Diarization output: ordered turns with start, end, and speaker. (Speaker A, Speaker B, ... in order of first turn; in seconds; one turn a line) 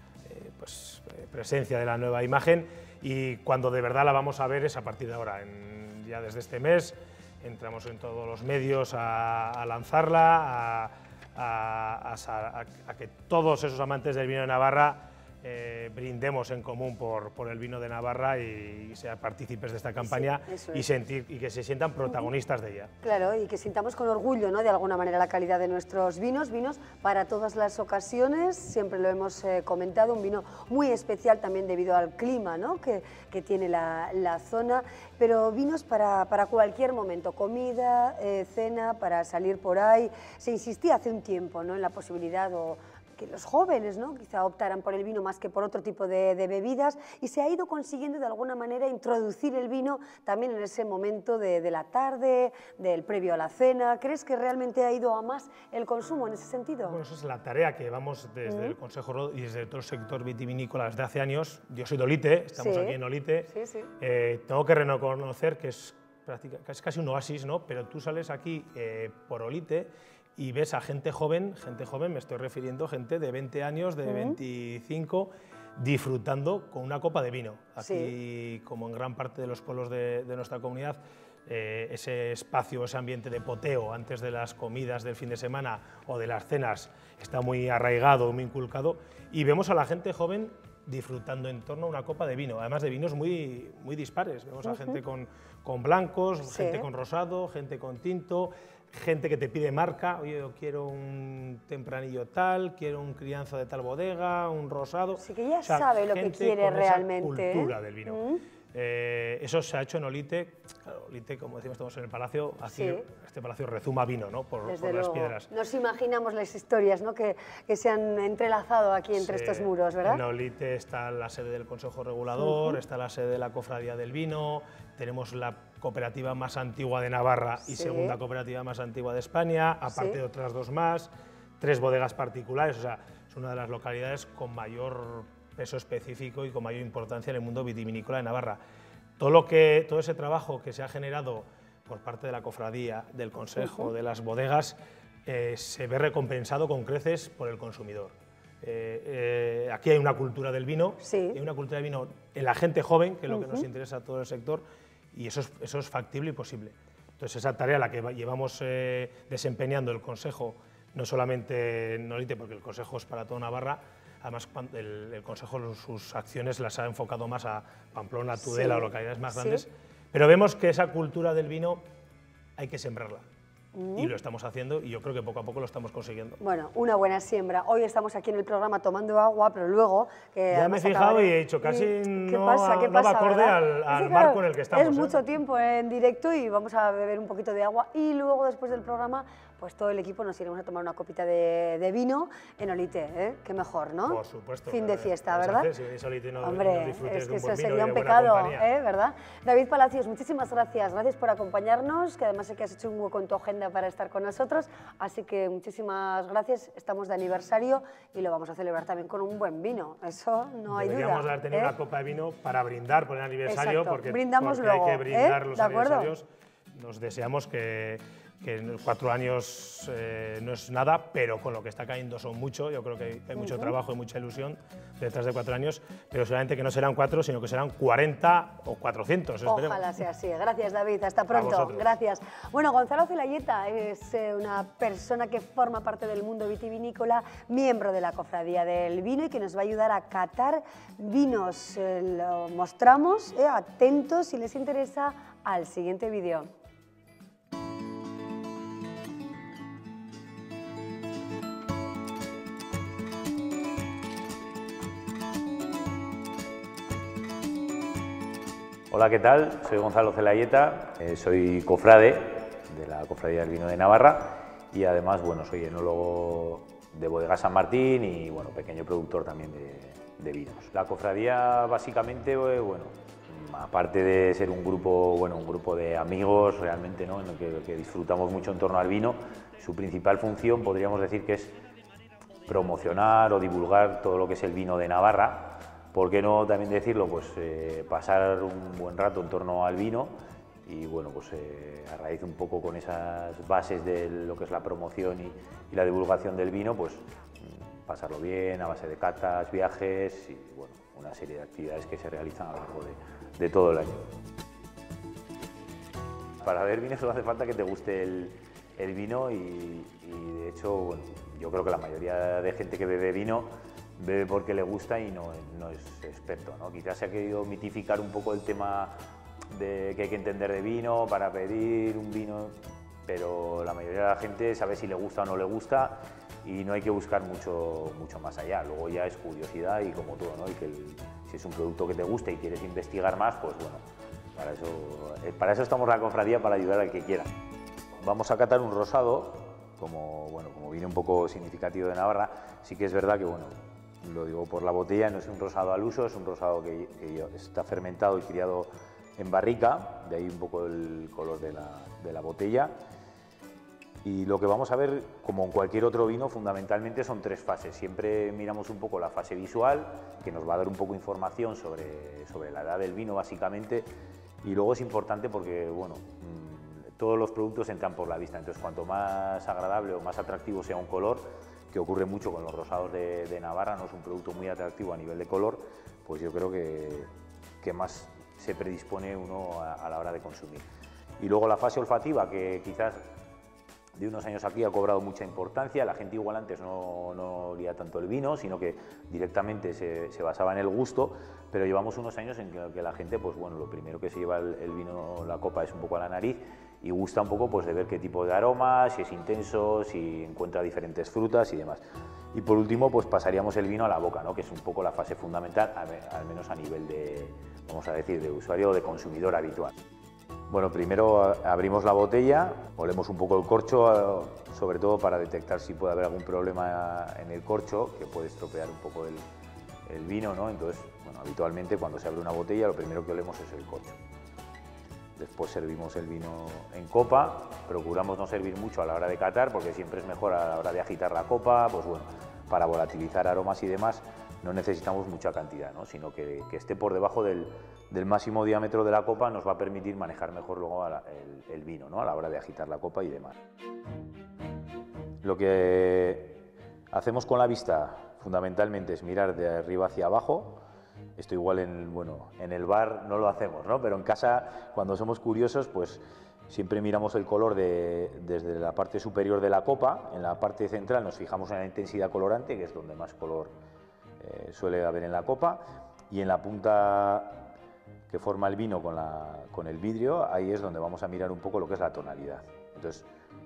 Speaker A: 0.2-22.9
Speaker B: 20.0-20.8
Speaker B: 23.0-57.0
Speaker A: 56.8-63.5
Speaker B: 58.4-58.8
Speaker B: 62.6-63.9
Speaker A: 64.0-108.2
Speaker B: 74.0-74.4
Speaker B: 77.8-78.1
Speaker B: 94.7-95.0
Speaker B: 96.4-96.8
Speaker B: 105.2-108.4
Speaker A: 108.7-115.5
Speaker B: 112.7-113.0
Speaker B: 114.7-120.2
Speaker A: 119.2-138.6
Speaker B: 122.4-122.8
Speaker B: 127.6-128.2
Speaker B: 129.9-130.2
Speaker A: 139.2-171.8
Speaker B: 143.6-143.9
Speaker B: 151.0-151.4
Speaker B: 153.3-153.7
Speaker B: 168.4-169.6
Speaker A: 172.6-173.2
Speaker B: 173.7-174.1
Speaker A: 173.9-176.4
Speaker B: 176.4-195.7
Speaker A: 180.5-185.2
Speaker A: 194.1-198.7
Speaker B: 196.4-211.7
Speaker A: 210.7-229.8
Speaker B: 213.4-216.1
Speaker B: 223.3-223.7
Speaker B: 229.4-246.5
Speaker A: 231.3-231.9
Speaker C: 258.9-281.6
Speaker C: 282.5-290.1
Speaker C: 290.6-304.1
Speaker C: 306.4-318.9
Speaker C: 319.5-333.8
Speaker C: 334.3-337.3
Speaker C: 338.0-352.8
Speaker C: 354.0-363.9
Speaker C: 364.4-380.6
Speaker C: 381.2-383.1
Speaker C: 384.0-409.7
Speaker C: 410.5-419.2
Speaker C: 419.9-424.0
Speaker C: 425.1-443.3
Speaker C: 445.2-450.6
Speaker C: 451.2-463.6
Speaker C: 464.2-467.5
Speaker C: 468.1-473.1